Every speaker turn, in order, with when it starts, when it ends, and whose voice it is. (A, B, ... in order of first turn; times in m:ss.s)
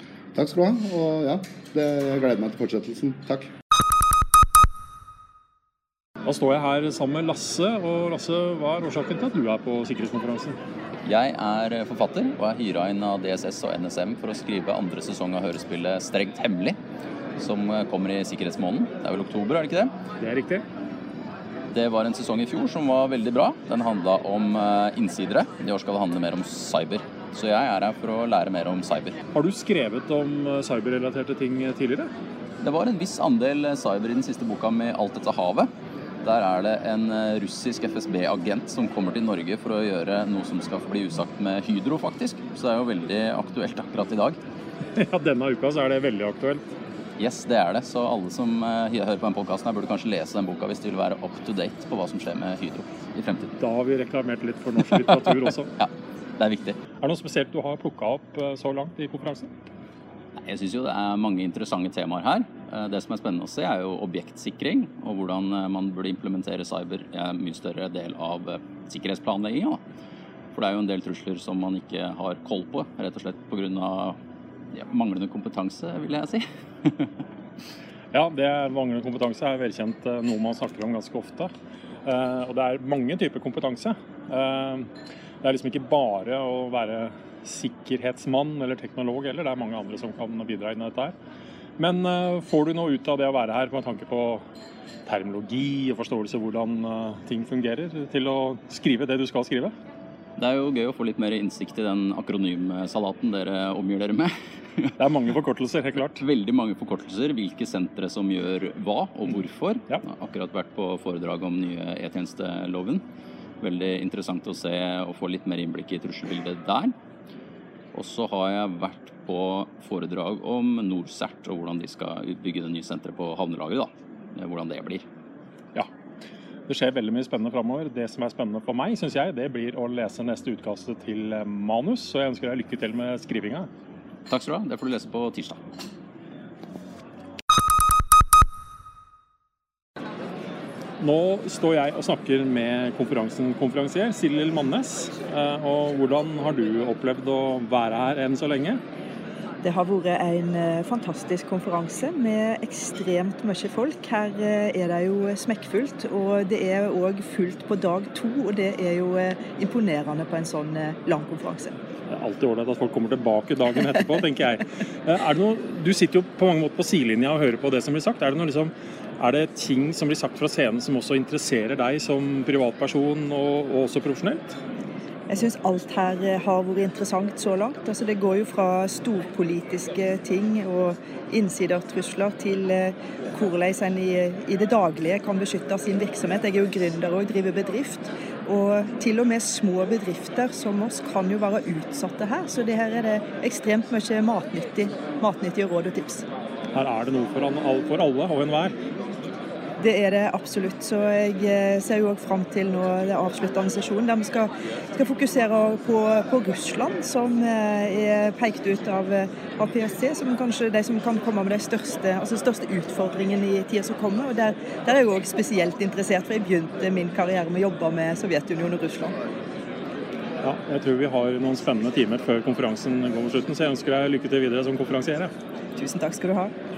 0:00.4-0:03.5 A
0:06.2-0:10.6 B
0:11.0-0:16.8 C
0:17.4-0:19.9 C
0:20.2-0:20.6 B
0:21.7-0:29.2 C
0:29.3-0:32.1 B
0:32.6-0:35.7 C
0:36.2-0:44.4 C
0:45.0-0:46.6 B
0:47.2-0:53.6 C
0:53.6-0:55.7 B
0:55.8-0:56.8 C
0:57.0-0:59.5 B
1:00.4-1:09.8 C
1:10.5-1:14.2 C
1:14.7-1:17.0 C
1:18.1-1:21.5 B
1:22.0-1:24.9 B
1:25.4-1:31.1 B
1:31.8-1:34.4 B
1:35.1-1:39.7 B
1:40.4-1:44.9 C
1:45.0-1:46.2 B
1:46.1-1:53.0 C
1:53.6-1:56.9 C
1:57.9-2:05.0 C
2:06.7-2:13.7 B
2:14.3-2:15.6 C
2:21.0-2:28.8 B
2:29.6-2:41.7 D
2:42.1-2:54.6 B
2:55.3-3:16.2 D
3:16.7-3:18.7 B
3:19.8-3:39.2 D
3:40.4-3:45.3 B
3:45.8-3:46.5 D